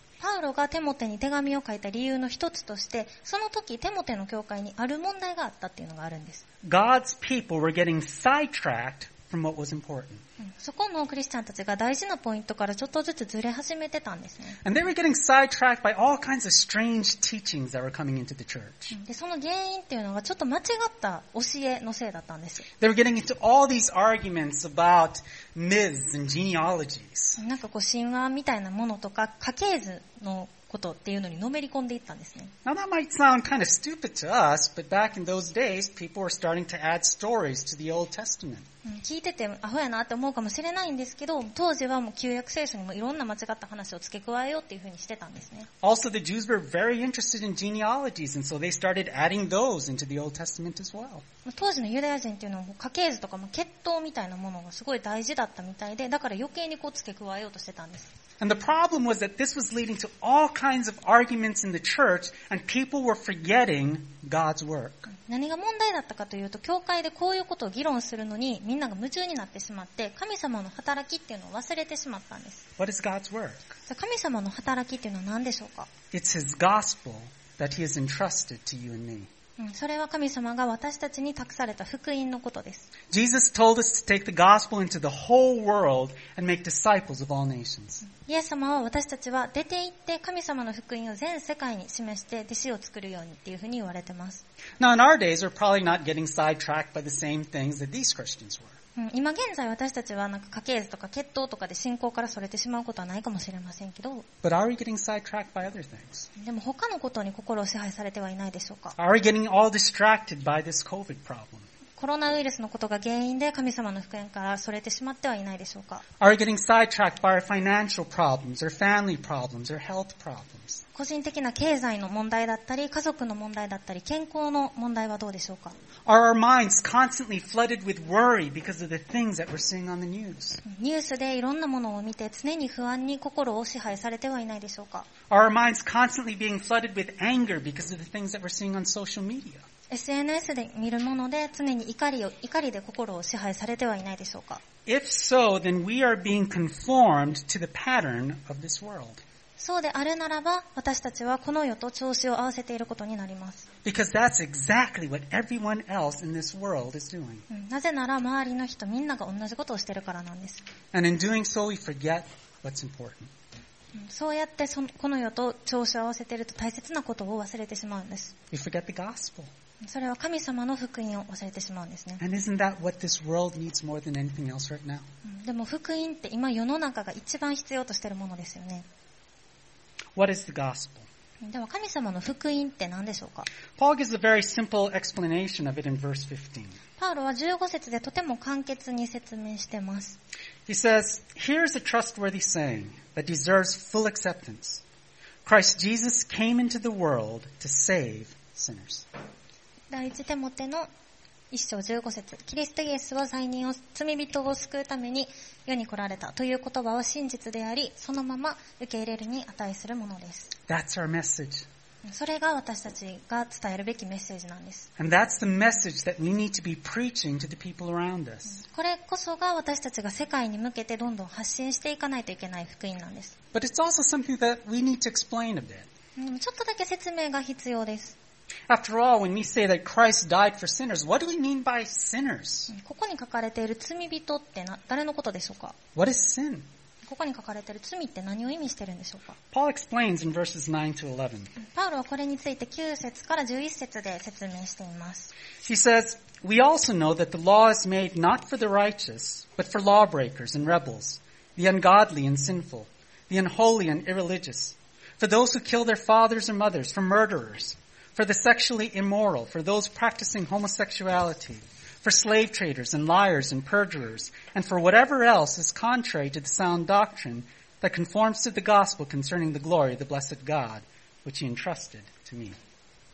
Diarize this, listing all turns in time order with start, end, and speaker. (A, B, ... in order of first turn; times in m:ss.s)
0:00.2-0:06.4 A
0:06.6-0:10.2 B
0:10.4-0:14.6 A
0:14.6-0:19.0 B
0:18.9-0:22.7 A
0:22.8-0:27.4 B
0:27.4-0:32.5 A
0:32.6-0:38.6 B
0:38.8-0:45.7 A
0:45.8-0:51.2 B
0:51.4-0:58.1 A
0:58.4-1:05.1 B
1:05.1-1:12.7 A
1:12.8-1:13.8 B
1:13.9-1:15.9 A
1:16.1-1:19.3 B
1:19.6-1:22.9 A
1:23.1-1:28.0 B
1:28.1-1:34.4 A
1:34.8-1:38.8 B
1:39.0-1:44.2 A
1:44.4-1:46.3 B
1:46.4-1:49.0 A
1:49.0-1:51.7 B
1:52.0-1:56.0 A
1:56.2-2:00.8 B
2:00.9-2:05.8 A
2:06.0-2:10.6 B
2:10.6-2:15.1 A
2:15.3-2:19.6 B
2:19.9-2:24.6 A
2:24.8-2:29.2 B
2:29.6-2:33.7 A
2:33.8-2:37.4 B
2:37.5-2:40.6 A
2:40.9-2:43.3 B
2:43.9-2:48.4 A
2:48.5-2:49.5 B
2:49.8-2:52.2 A
2:52.2-2:55.0 B
2:55.2-2:58.8 A
3:00.2-3:01.1 B
3:01.4-3:03.5 A
3:03.8-3:06.8 B
3:07.0-3:10.2 A
3:10.7-3:14.8 B
3:15.4-3:19.1 B
3:19.9-3:20.9 A
3:21.5-3:30.5 A
3:30.7-3:31.6 B
3:32.0-3:34.9 A
3:35.0-3:38.6 B
3:38.5-3:43.4 A
3:43.5-3:45.9 B
3:46.2-3:48.2 A
3:48.7-3:52.7 B
3:52.7-3:55.8 A
3:55.9-3:56.7 B
3:57.0-3:59.4 A
3:59.5-4:01.5 B
4:01.6-4:05.3 A
4:05.6-4:32.6 B